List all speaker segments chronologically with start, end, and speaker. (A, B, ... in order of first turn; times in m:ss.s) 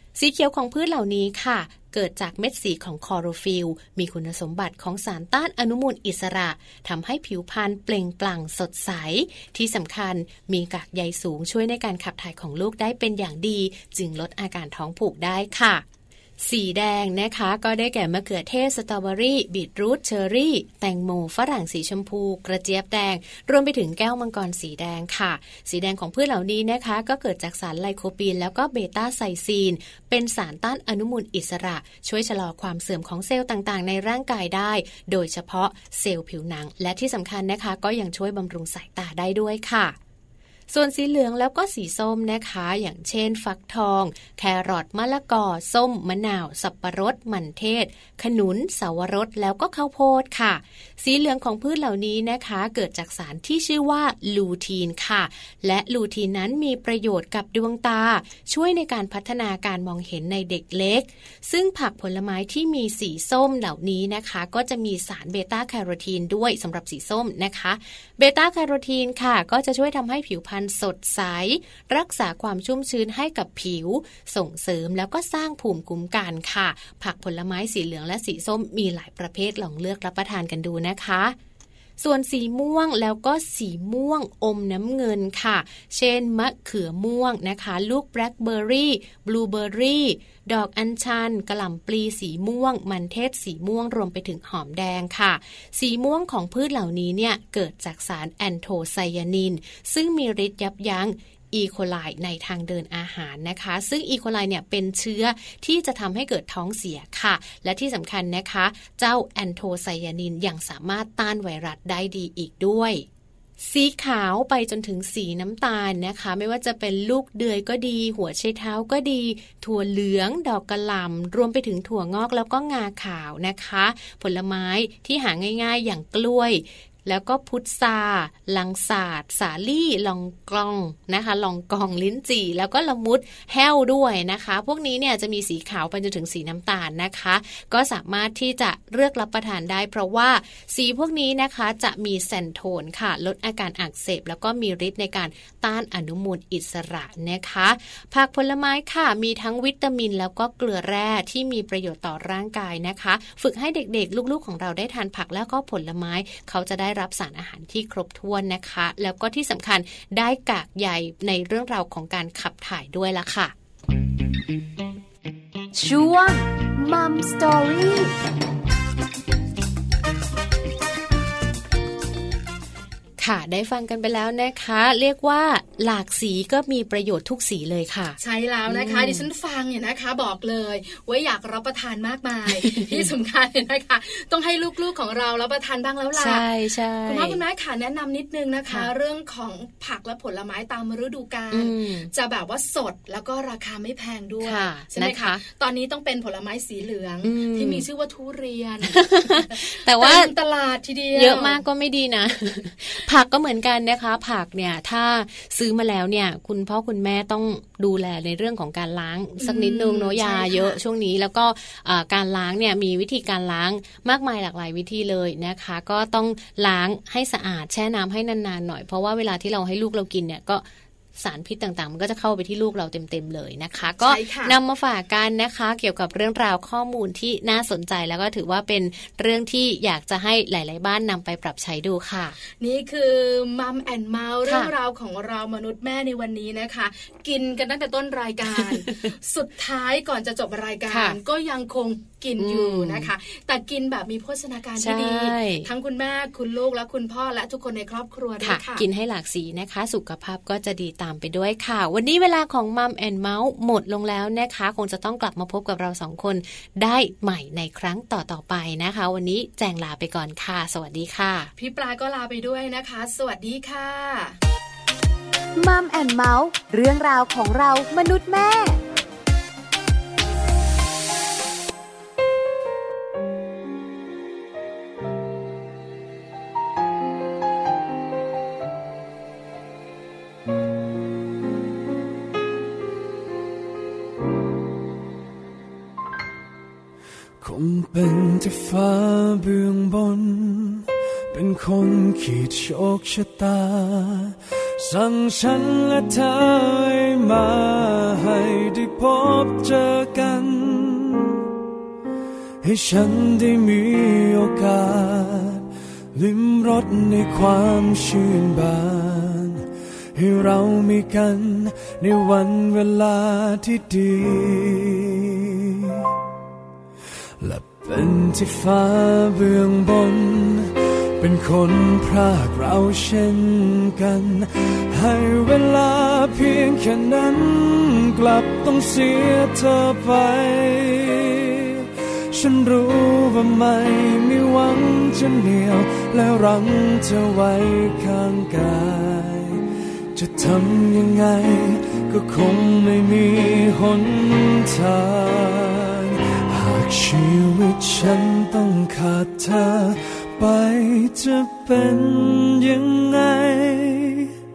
0:00.1-0:15.8 A
0:16.4-0:39.9 A
0:40.7-1:21.3 A
1:22.0-1:53.0 A
1:53.6-2:43.5 A
2:45.7-2:48.1 B
2:53.2-2:59.3 A
2:58.2-3:06.4 C
3:02.5-3:03.1 A
3:06.1-3:07.4 A
3:07.0-3:21.6 C
3:11.5-3:12.1 A
3:14.4-3:15.4 A
3:17.2-3:17.8 A
3:18.9-3:20.3 A
3:21.1-3:40.6 A
3:29.4-3:30.8 C
3:41.2-3:52.4 A
3:44.0-3:44.6 C
3:52.5-4:08.8 C
3:54.4-3:54.7 A
3:58.5-3:59.1 A
4:00.9-4:01.2 A
4:02.4-4:03.1 A
4:04.8-4:05.7 A
4:08.4-4:21.5 A
4:21.6-4:24.4 C
4:25.6-4:28.8 B
4:47.4-5:01.4 D
5:02.6-5:16.0 D
5:17.4-5:54.3 D